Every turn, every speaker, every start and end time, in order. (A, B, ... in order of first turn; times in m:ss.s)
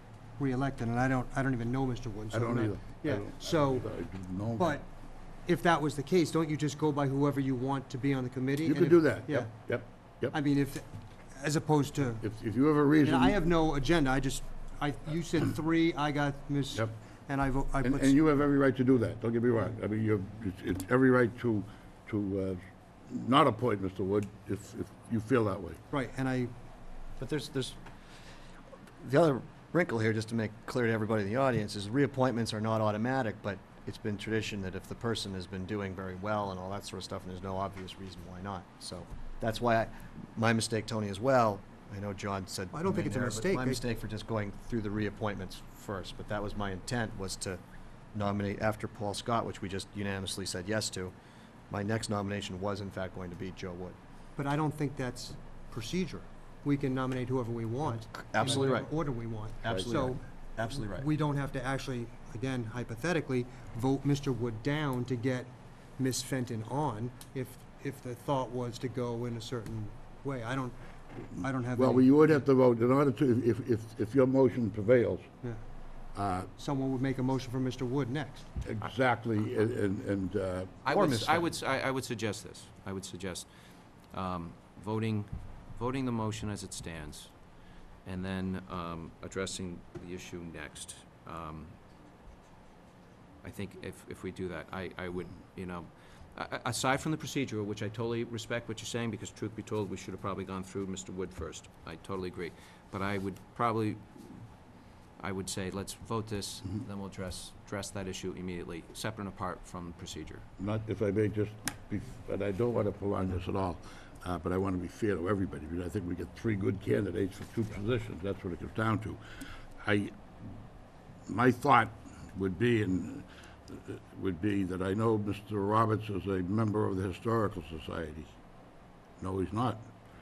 0:00.4-0:03.8 A
0:02.3-0:04.8 B
0:04.6-0:04.9 A
0:05.4-0:09.5 A
0:08.6-0:10.3 B
0:10.3-0:12.2 A
0:12.2-0:13.4 B
0:13.0-0:18.2 A
0:17.8-0:25.8 B
0:25.9-0:26.5 A
0:27.2-0:27.8 C
0:29.0-0:47.6 C
0:42.7-0:43.8 A
0:48.1-0:51.1 C
0:51.7-0:53.9 C
0:54.4-1:10.8 A
0:58.1-0:58.9 C
0:59.6-1:01.1 C
1:11.3-1:12.2 A
1:11.8-1:15.3 B
1:16.1-1:16.5 B
1:16.6-1:18.5 A
1:18.6-1:20.8 B
1:20.8-1:23.5 D
1:20.9-1:21.4 C
1:24.1-1:27.3 D
1:28.0-1:31.8 D
1:33.4-1:44.4 D
1:45.2-1:50.4 D
1:50.6-1:59.2 B
1:59.8-2:00.2 B
2:01.3-2:08.3 B
2:09.2-2:09.8 B